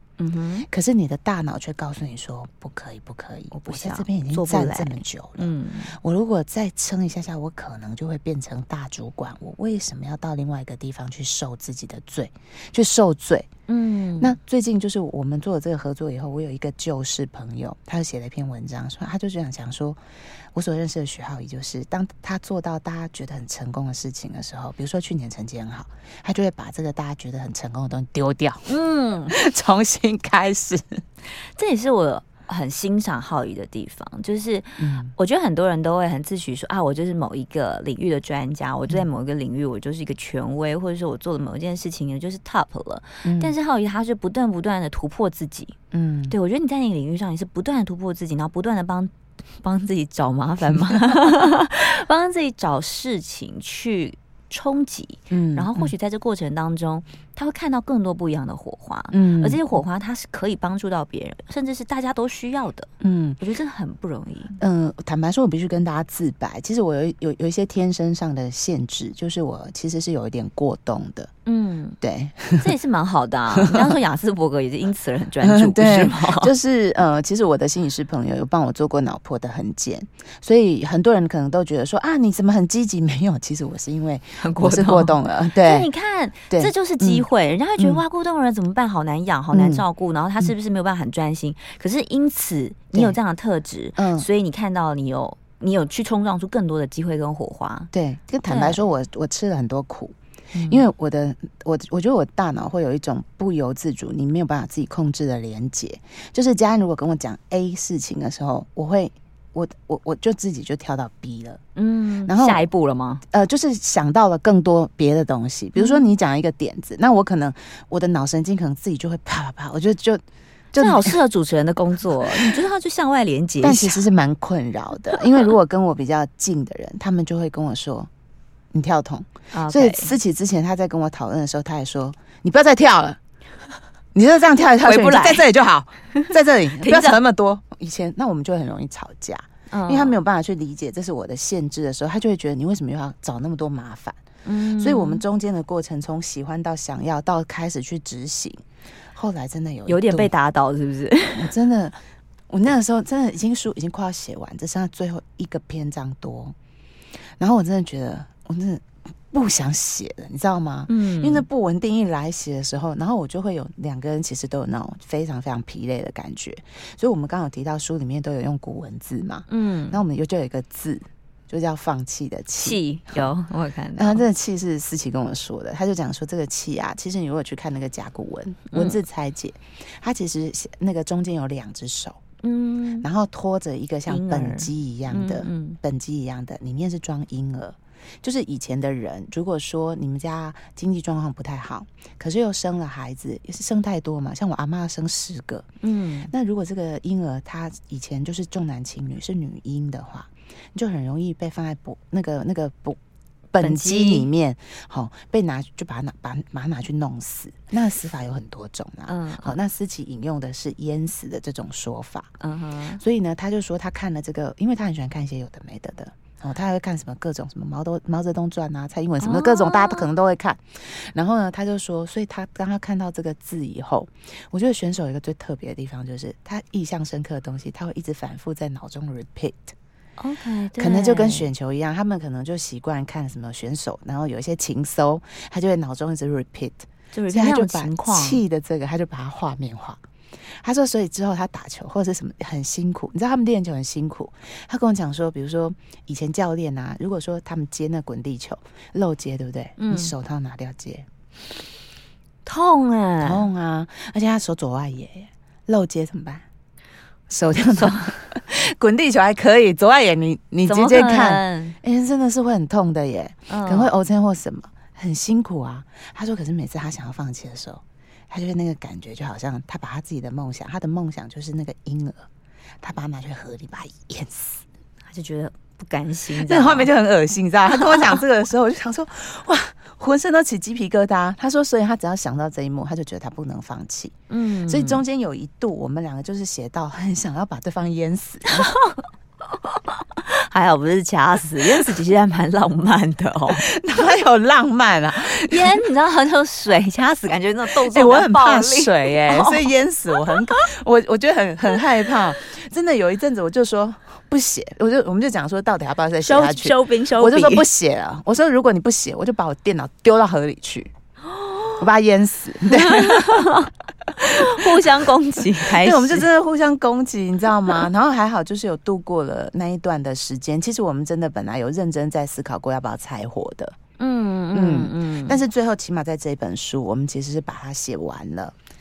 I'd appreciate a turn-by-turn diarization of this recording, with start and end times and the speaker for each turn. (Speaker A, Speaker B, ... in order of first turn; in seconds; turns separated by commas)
Speaker A: 0.2-0.7, Speaker B: 0.7-13.5, Speaker A: 3.6-5.9, Speaker A: 13.7-14.4, Speaker B: 14.2-20.0, Speaker B: 20.5-28.7, Speaker A: 28.7-29.3, Speaker B: 29.3-31.0, Speaker A: 31.6-45.8, Speaker B: 34.8-35.1, Speaker B: 43.2-43.5, Speaker B: 45.9-46.3, Speaker A: 46.3-64.6, Speaker B: 55.3-55.9, Speaker B: 59.1-59.6, Speaker B: 63.0-63.4, Speaker B: 64.6-71.3, Speaker A: 71.5-72.0, Speaker B: 72.0-72.7, Speaker A: 72.6-76.5, Speaker B: 73.6-74.0, Speaker B: 75.4-85.9, Speaker A: 84.4-97.9, Speaker B: 86.5-87.2, Speaker B: 87.8-88.0, Speaker B: 89.5-89.8, Speaker B: 94.0-94.3, Speaker B: 97.9-100.1, Speaker A: 98.5-98.8, Speaker A: 100.5-100.8, Speaker B: 100.7-111.6, Speaker A: 111.8-113.2, Speaker B: 112.2-112.7, Speaker B: 113.3-121.2, Speaker A: 115.8-116.0, Speaker A: 120.8-124.0, Speaker B: 122.2-122.5, Speaker B: 123.6-128.1, Speaker B: 128.7-133.2, Speaker A: 129.5-130.1, Speaker B: 134.1-144.2, Speaker A: 134.8-135.5, Speaker A: 136.1-137.2, Speaker A: 139.7-140.2, Speaker A: 144.4-145.2, Speaker B: 144.8-148.6, Speaker B: 149.1-150.3, Speaker A: 149.9-151.5, Speaker B: 151.3-152.0, Speaker B: 152.5-156.5, Speaker B: 157.4-173.3, Speaker A: 160.9-161.4, Speaker A: 169.5-170.0, Speaker A: 172.6-174.2, Speaker B: 174.0-182.2, Speaker A: 178.7-179.0, Speaker A: 182.4-183.1, Speaker B: 183.0-195.7, Speaker A: 184.1-185.8, Speaker A: 195.8-196.3, Speaker B: 196.3-203.0, Speaker B: 203.5-212.3, Speaker A: 203.6-204.3, Speaker A: 209.1-209.6, Speaker A: 212.4-213.0, Speaker B: 213.0-229.7, Speaker A: 219.2-220.1, Speaker A: 230.2-231.5, Speaker B: 230.8-251.1, Speaker A: 237.1-238.4, Speaker A: 249.8-250.1, Speaker A: 252.4-253.4, Speaker B: 253.2-256.4, Speaker B: 257.3-272.3, Speaker A: 257.7-258.1, Speaker A: 260.7-261.8, Speaker A: 263.5-263.9, Speaker B: 272.8-274.6, Speaker A: 275.1-276.9, Speaker B: 276.3-284.1, Speaker A: 277.7-278.2, Speaker A: 284.3-285.0, Speaker B: 284.7-288.7, Speaker A: 288.5-289.0, Speaker A: 289.7-293.6, Speaker B: 293.5-295.8, Speaker A: 295.4-300.6, Speaker B: 297.7-310.9, Speaker A: 306.2-307.6, Speaker A: 311.2-311.8, Speaker B: 311.8-313.5, Speaker A: 312.7-316.3, Speaker B: 314.2-315.1, Speaker B: 315.6-323.8, Speaker A: 324.0-325.4, Speaker B: 324.5-328.5